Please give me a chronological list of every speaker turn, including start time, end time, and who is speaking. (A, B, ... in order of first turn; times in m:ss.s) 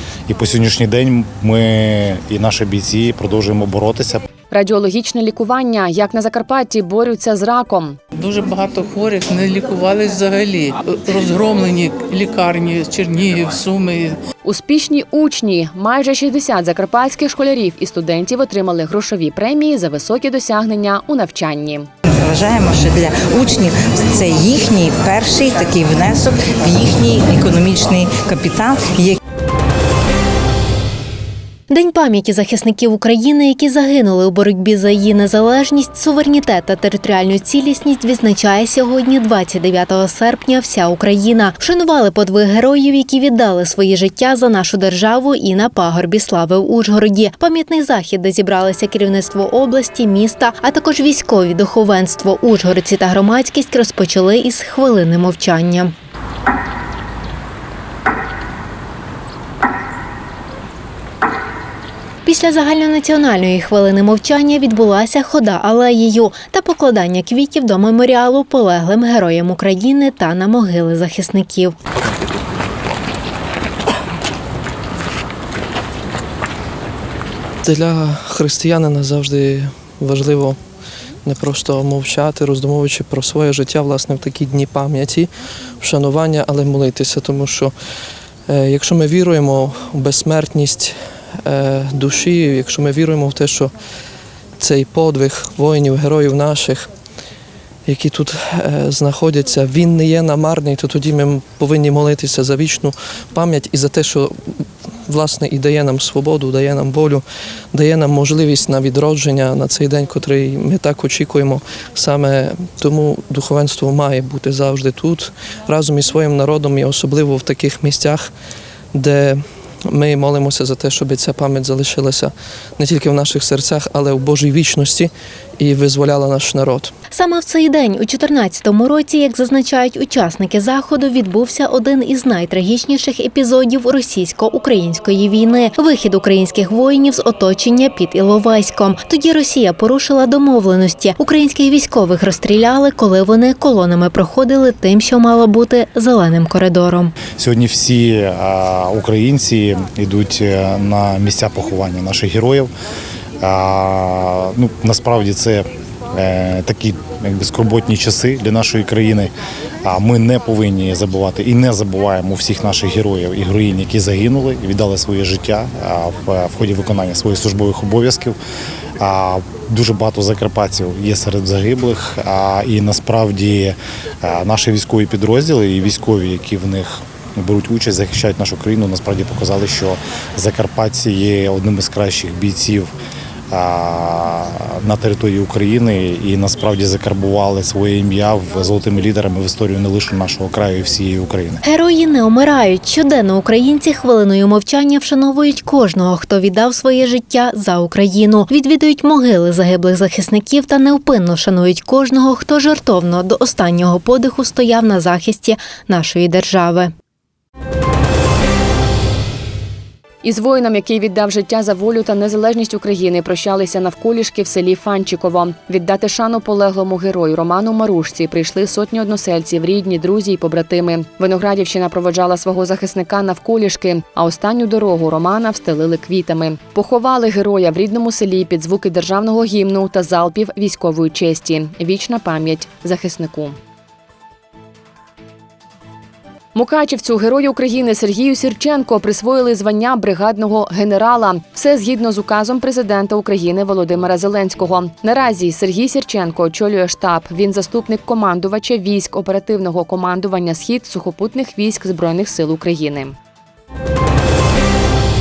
0:00.3-0:04.2 A
0:04.5-0:08.0 B
0:08.2-0:14.1 C
0:14.4-0:21.9 B
0:22.2-0:29.2 D
0:31.7-0:55.9 E
1:02.2-1:11.7 E
1:17.6-1:20.6 F
1:21.2-1:25.3 F
1:25.8-1:27.7 F
1:28.5-1:33.7 F
1:34.6-1:36.9 F
1:37.8-1:44.3 F
1:45.1-1:58.3 F
1:58.9-2:06.9 F
2:07.1-2:27.2 E
2:27.4-2:32.7 A
2:33.4-2:39.3 A
2:39.8-2:48.4 A
2:49.0-3:02.9 A
3:03.5-3:11.6 A
3:11.6-3:26.9 E
3:30.2-3:53.6 B
3:56.5-4:13.2 B